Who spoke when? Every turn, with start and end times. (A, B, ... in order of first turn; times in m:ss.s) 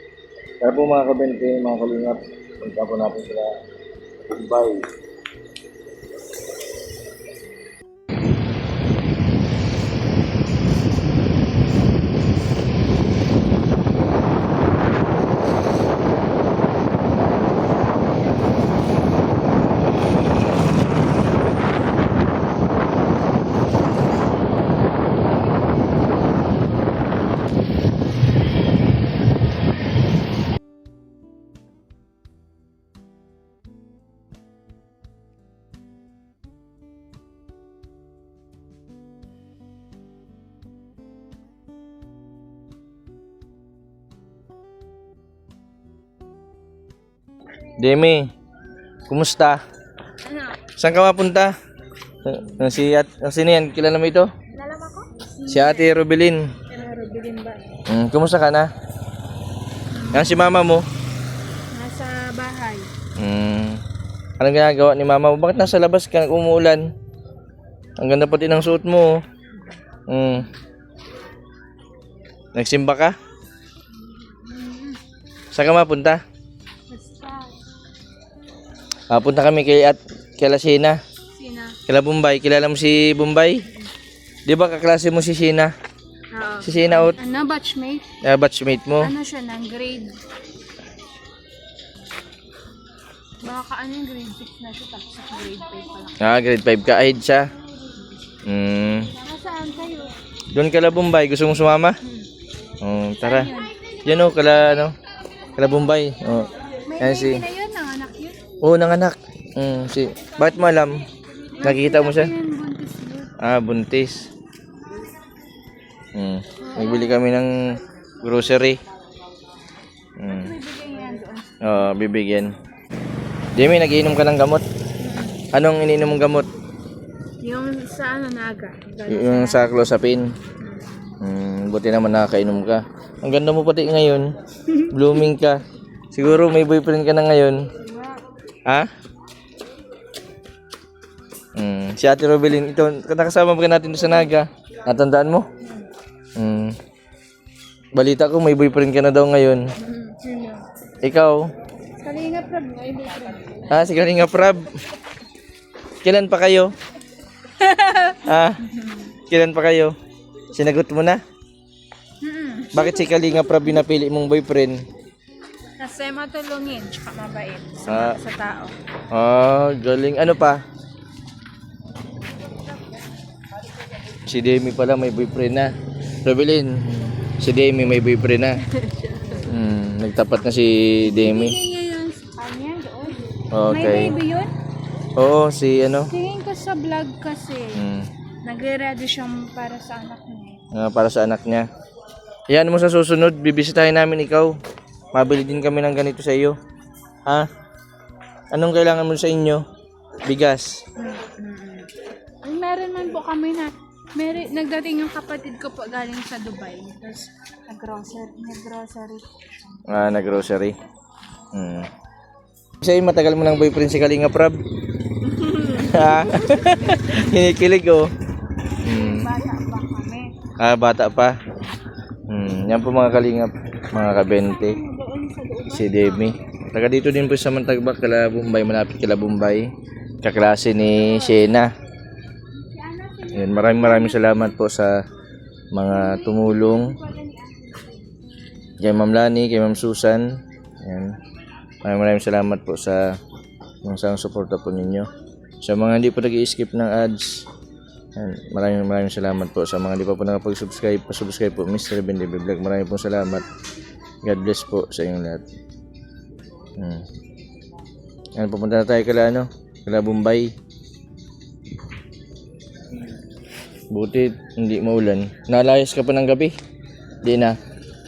0:00.6-0:03.6 A
0:04.2-0:04.9 A
0:47.8-0:48.3 A
0:49.1-0:49.6 A
0:50.2-0:50.6 B
0:50.8-0:51.5 A
0:52.2-0:54.3 A
0:54.5-0:55.9 B
0:55.5-0:56.5 A
0:56.7-0:57.7 B
0:57.9-0:58.7 A
0:59.9-1:00.5 B
1:00.1-1:00.8 A
1:01.7-1:02.9 B
1:03.2-1:03.8 A
1:04.4-1:06.9 A
1:08.0-1:09.2 A
1:10.1-1:10.5 A
1:12.5-1:13.2 A
1:14.2-1:15.0 B
1:15.5-1:16.2 A
1:16.9-1:17.6 B
1:19.1-1:21.0 A
1:21.3-1:21.8 B
1:21.9-1:23.6 A
1:24.4-1:25.7 A
1:26.3-1:28.0 B
1:26.6-1:27.2 A
1:28.2-1:29.1 A
1:29.0-1:30.2 B
1:33.4-1:36.2 B
1:36.2-1:37.4 A
1:38.4-1:39.1 A
1:39.1-1:40.1 B
1:40.5-1:42.0 A
1:42.0-1:42.3 B
1:42.8-1:43.5 A
1:43.2-1:43.7 B
1:44.0-1:44.9 A
1:45.6-1:47.4 A
1:46.9-1:48.4 B
1:48.6-1:51.1 A
1:51.5-1:53.3 B
1:51.6-1:52.3 A
1:53.4-1:54.3 A
1:56.1-1:57.5 A
1:56.6-1:57.2 B
1:58.2-1:58.8 A
2:00.2-2:00.5 A
2:00.3-2:01.7 B
2:01.6-2:02.5 A
2:03.6-2:04.6 A
2:05.0-2:05.5 B
2:05.5-2:06.5 A
2:07.4-2:09.6 B
2:09.1-2:10.3 A
2:10.6-2:11.1 B
2:11.2-2:17.7 A
2:17.8-2:18.2 B
2:18.6-2:18.9 A
2:21.6-2:25.5 A
2:26.4-2:26.8 A
2:28.0-2:29.7 A
2:29.8-2:30.7 B
2:31.0-2:31.5 A
2:32.0-2:33.7 B
2:33.7-2:34.7 A
2:36.0-2:36.7 A
2:37.6-2:39.2 B
2:38.1-2:38.6 A
2:39.3-2:39.9 A
2:40.5-2:41.2 A
2:42.2-2:43.1 B
2:42.7-2:44.8 A
2:45.8-2:48.7 B
2:47.9-2:48.2 A
2:49.1-2:50.6 A
2:54.2-2:58.6 A
2:58.6-2:59.5 B
2:59.4-3:01.6 A
3:01.0-3:04.5 B
3:03.5-3:04.1 A
3:05.2-3:06.1 A
3:06.1-3:07.8 B
3:07.7-3:08.0 A
3:08.4-3:10.6 B
3:10.7-3:11.7 A
3:12.5-3:14.6 A
3:15.1-3:16.5 A
3:18.5-3:19.6 A
3:20.2-3:20.8 A
3:21.0-3:29.8 B
3:29.9-3:30.7 A
3:31.5-3:31.9 A
3:32.8-3:34.6 A
3:35.2-3:37.3 B
3:35.6-3:38.1 A
3:38.8-3:39.3 A
3:38.8-3:40.3 B
3:40.6-3:41.4 A
3:42.3-3:44.8 A
3:44.0-3:46.4 B
3:45.7-3:49.7 A
3:50.2-3:51.7 A
3:52.6-3:54.3 B
3:53.3-3:55.0 A
3:55.7-3:57.0 A
3:55.9-3:58.0 B
3:58.8-4:01.2 A
4:01.8-4:03.0 A
4:03.8-4:05.1 A
4:05.6-4:07.5 A
4:08.2-4:13.4 A
4:14.2-4:15.4 A
4:16.8-4:17.0 A
4:18.4-4:20.5 A
4:23.9-4:26.5 A
4:27.2-4:27.6 A